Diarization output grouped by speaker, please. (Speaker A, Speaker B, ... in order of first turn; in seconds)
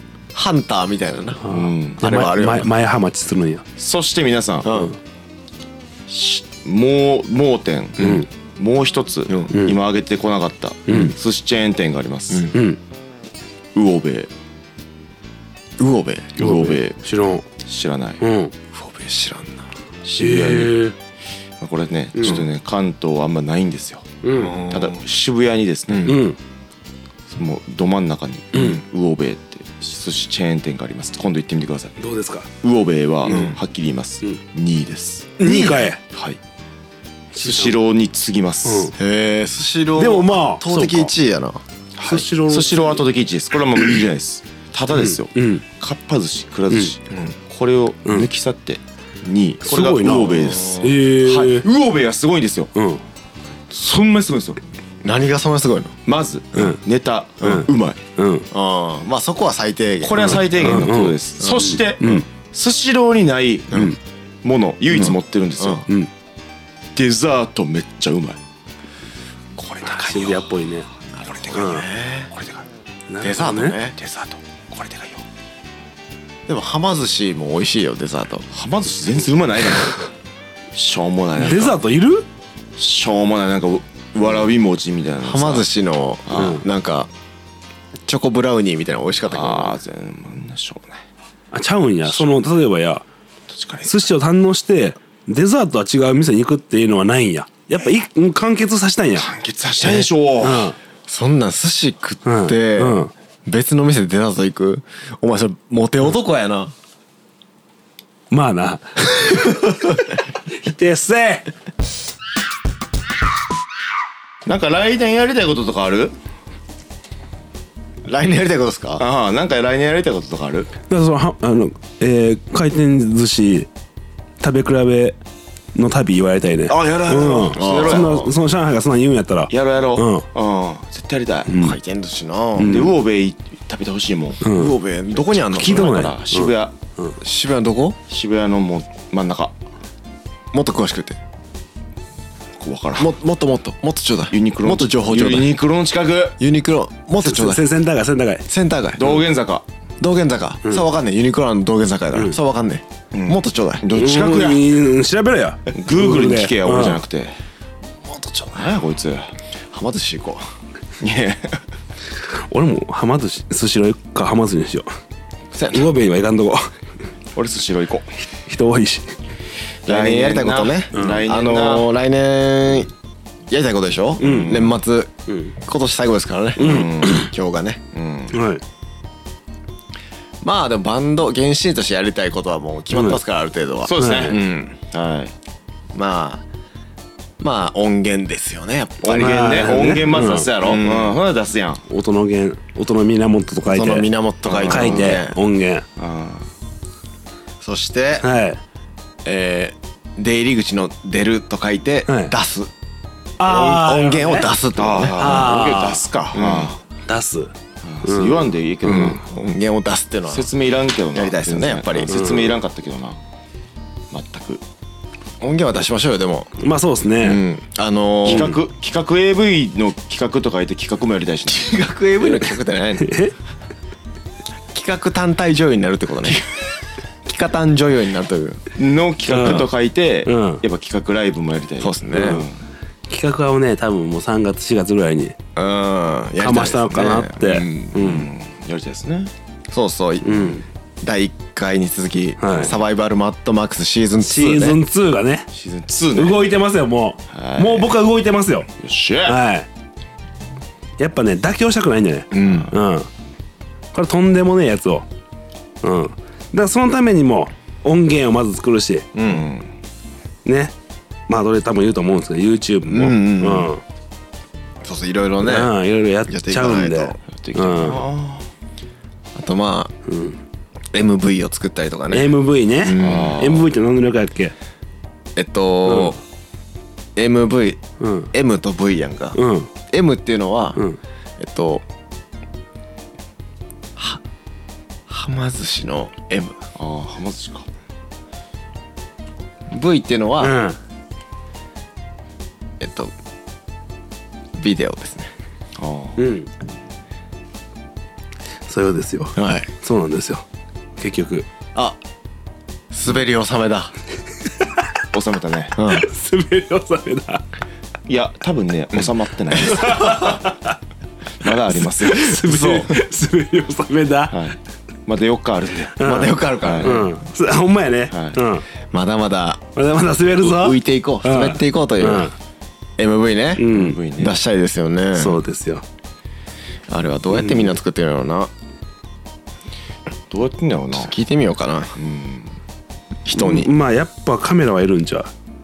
Speaker A: 0.3-1.4, 2.0-2.7, 4.6-4.9, 15.8-16.4, 18.7-19.7, 24.3-25.0, 25.9-26.2, 33.2-33.6, 39.0-41.6, 47.1-47.3, 50.3-50.9, 55.0-56.0, 58.5-60.8, 61.5-61.7, 65.0-65.8, 71.4-72.3, 73.2-74.0, 76.5-78.5, 85.2-87.1, 88.0-89.8, 99.8-100.1, 101.1-106.7, 118.0-119.0, 127.5-128.3, 131.5-132.8, 134.5-136.0, 137.2-138.0, 140.5-141.2, 143.0-145.5, 146.4-147.6, 148.5-149.2, 150.0-153.8, 159.7-160.4, 165.5-165.9, 169.8-172.9, 173.5-177.8, 180.4-184.7, 185.9-186.4, 187.4-190.0, 190.6-191.2, 193.7-195.4, 197.6-198.2, 199.2-202.7, 203.4-205.4, 206.3-206.7, 208.8-210.5, 211.1-212.2, 215.4-216.5, 217.2-218.5, 221.5-223.2, 224.7-226.4, 227.2-228.6, 231.8-232.4, 235.6-238.2, 239.7-244.8, 252.3-252.7, 259.1-259.4, 262.9-263.7, 264.8-265.7, 266.3-267.2, 269.3-269.9, 270.9-273.4, 275.3-276.2, 277.1-277.8, 278.3-279.4, 279.9-280.8, 281.4-281.8, 283.9-284.2, 285.1-286.6, 289.7-290.6, 292.8-293.1, 294.5-295.3, 299.4-299.7, 302.9-303.9, 305.7-306.1, 309.8-310.2, 312.3-312.9, 316.0-317.1, 318.9-319.6, 320.4-322.3, 323.0-325.4, 326.9-328.5, 330.9-331.9, 333.2-333.7
Speaker B: 1.4-3.6, 8.0-8.3, 9.5-9.8, 10.9-11.1, 12.5-12.8, 16.4-17.4, 18.2-18.5, 20.2-20.9, 22.1-22.4, 24.2-24.6, 26.1-26.4, 28.5-28.8, 32.0-32.5, 35.4-36.0, 37.3-37.8, 38.6-38.9, 40.0-41.1, 42.0-43.0, 44.9-45.6, 49.6-51.6, 52.7-53.0, 57.4-58.5, 60.2-61.1, 62.0-62.2, 63.7-64.0, 69.8-70.9, 71.5-71.8, 73.1-73.8, 81.4-82.2, 86.3-86.6, 91.5-93.0, 93.8-99.3, 100.4-100.8, 102.2-103.1, 108.3-109.9, 110.5-111.5, 120.9-123.7, 124.4-125.2, 125.7-130.2, 131.5-131.8, 132.6-132.9, 134.4-134.7, 135.5-137.2, 147.2-148.4, 153.9-157.0, 162.5-164.9, 165.7-166.7, 168.4-169.1, 170.9-171.2, 174.2-174.7, 175.3-175.5, 176.6-177.3, 178.3-178.6, 182.9-183.2, 184.0-184.4, 189.1-190.5, 191.9-194.1, 194.7-195.8, 198.2-198.6, 202.1-202.3, 203.4-206.0, 207.1-207.5, 208.0-209.2, 212.1-212.6, 216.6-217.4, 218.3-218.5, 223.0-223.3, 229.3-229.7, 230.2-230.6, 232.1-232.4, 233.1-235.3, 236.4-238.3, 240.2-240.6, 242.4-242.7, 244.2-245.5, 246.1-248.7, 249.2-249.7, 251.0-253.1, 253.9-255.1, 255.8-259.1, 260.4-260.7, 261.3-263.8, 265.4-268.0, 270.1-270.4, 272.1-274.5, 275.9-276.1, 278.0-278.3, 279.3-279.7, 290.4-290.8, 296.2-296.5, 298.6-300.4, 301.0-301.5, 305.8-307.4, 309.6-310.8, 312.0-314.4, 316.0-318.6, 319.7-322.3, 323.6-324.0, 325.1-325.8, 333.3-335.3
Speaker C: 1.5-2.0, 3.8-4.8, 6.1-12.5, 13.7-14.3, 16.4-17.0, 17.6-18.2, 20.0-20.8, 21.6-26.2, 27.3-31.9, 32.6-36.4, 37.4-38.9, 42.0-52.7, 53.7-54.6, 56.0-58.0, 60.0-65.8, 67.0-68.4, 69.6-70.5, 71.2-72.7, 74.0-75.2, 78.5-80.0, 80.7-81.8, 82.8-85.7, 86.3-86.6, 89.3-91.0, 93.5-94.0, 99.2-100.7, 114.5-116.1, 119.0-120.7, 126.7-128.3, 129.5-131.5, 132.6-134.4, 135.1-136.7, 138.1-139.5, 142.6-143.1, 144.3-146.4, 148.9-149.7, 153.1-154.7, 155.7-157.4, 158.5-159.3, 161.0-161.6, 167.3-168.1, 169.8-171.9, 174.2-174.7, 176.6-177.3, 177.9-178.4, 183.8-184.4, 184.9-185.3, 189.0-191.8, 194.4-195.2, 196.0-196.5, 204.7-206.8, 207.8-209.2, 210.3-213.2, 214.1-214.6, 218.2-221.8, 228.7-232.6, 237.9-239.3, 245.5-246.4, 247.3-247.9, 248.8-249.4, 252.3-252.7, 259.2-259.7, 267.3-268.4, 273.0-273.7, 286.8-287.6, 295.8-296.2, 305.1-305.8, 308.1-310.4, 311.4-312.4, 314.3-314.6, 315.1-316.0, 316.6-317.0, 318.1-318.4, 323.7-324.4, 330.3-331.1, 331.9-332.5